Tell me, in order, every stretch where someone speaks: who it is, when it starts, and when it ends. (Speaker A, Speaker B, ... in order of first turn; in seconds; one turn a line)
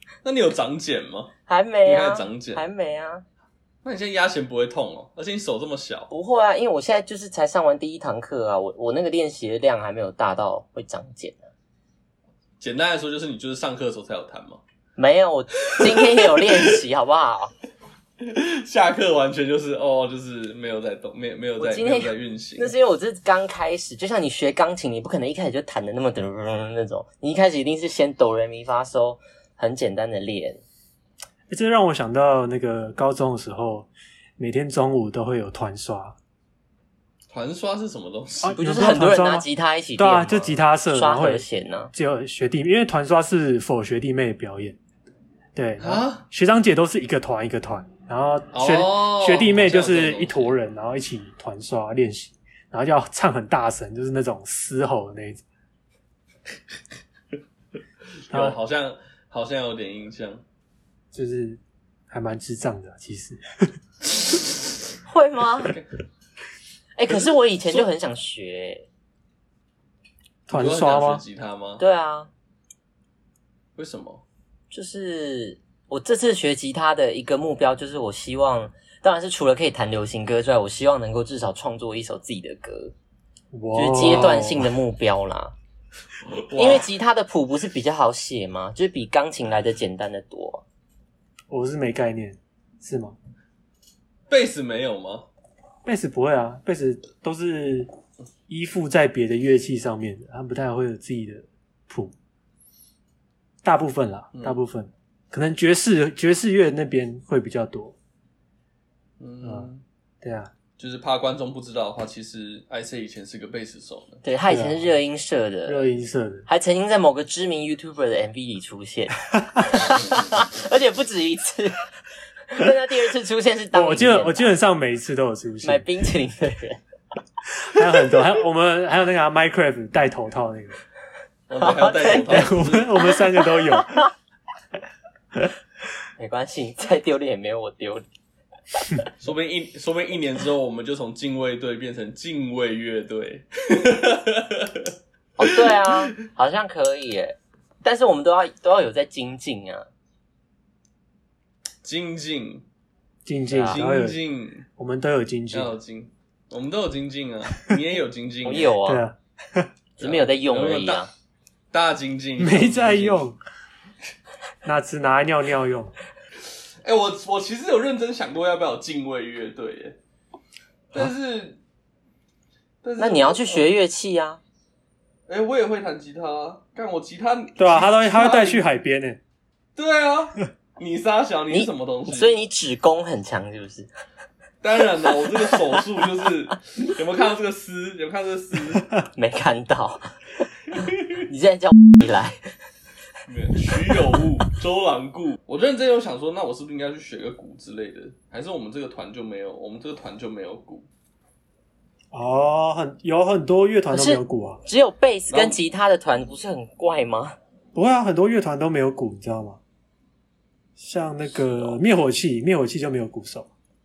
Speaker A: 0.2-1.3
Speaker B: 1.5-3.2
Speaker A: 1.8-2.6
Speaker A: 3.8-6.1
Speaker B: 6.1-11.5
Speaker A: 12.6-14.6
Speaker B: 14.9-17.5
Speaker A: 15.6-16.8
Speaker A: 18.2-22.7
Speaker B: 21.6-30.6
Speaker C: 31.5-36.1
Speaker A: 37.3-38.6
Speaker C: 38.4-39.5
Speaker B: 38.6-41.9
Speaker C: 40.0-44.8
Speaker C: 45.5-55.4
Speaker A: 45.8-46.2
Speaker A: 48.5-50.5
Speaker A: 58.3-60.4
Speaker C: 58.3-58.6
Speaker C: 61.1-63.4
Speaker B: 65.1-65.7
Speaker B: 66.9-68.9
Speaker C: 70.5-71.2
Speaker A: 70.5-71.8
Speaker B: 71.8-72.3
Speaker A: 73.8-74.2
Speaker B: 74.7-82.9
Speaker C: 83.5-84.7
Speaker B: 83.7-85.5
Speaker A: 84.0-84.4
Speaker A: 86.3-86.8
Speaker B: 86.5-90.6
Speaker C: 91.5-93.2
Speaker A: 94.3-95.3
Speaker C: 95.8-97.9
Speaker C: 98.5-102.1
Speaker C: 103.6-107.9
Speaker A: 104.3-104.6
Speaker A: 109.2-109.8
Speaker C: 109.4-109.7
Speaker C: 110.2-110.5
Speaker A: 110.8-114.2
Speaker B: 114.2-115.8
Speaker C: 114.5-114.9
Speaker C: 115.7-116.5
Speaker B: 116.5-121.8
Speaker B: 122.5-124.5
Speaker C: 123.7-125.8
Speaker B: 125.6-126.8
Speaker C: 127.7-130.8
Speaker A: 131.5-132.9
Speaker B: 131.6-134.1
Speaker C: 132.2-134.0
Speaker B: 136.2-138.0
Speaker A: 139.2-144.9
Speaker B: 145.4-149.9
Speaker A: 145.5-145.9
Speaker A: 151.8-152.6
Speaker C: 153.2-154.2
Speaker B: 153.5-153.8
Speaker A: 153.7-154.7
Speaker C: 154.8-155.7
Speaker A: 155.5-158.7
Speaker B: 158.4-159.0
Speaker C: 158.8-159.7
Speaker A: 160.0-161.1
Speaker B: 160.0-161.1
Speaker A: 161.7-163.2
Speaker C: 162.4-163.4
Speaker C: 164.6-165.9
Speaker A: 166.8-170.0
Speaker A: 170.9-171.6
Speaker A: 172.8-173.7
Speaker B: 173.0-174.4
Speaker A: 175.3-178.6
Speaker C: 177.6-179.2
Speaker A: 179.8-182.3
Speaker B: 181.5-183.9
Speaker A: 184.6-188.9
Speaker B: 189.2-190.1
Speaker B: 190.6-192.5
Speaker A: 193.3-200.9
Speaker C: 202.1-204.6
Speaker B: 203.9-207.3
Speaker A: 205.3-205.6
Speaker C: 207.7-209.6
Speaker C: 210.8-213.5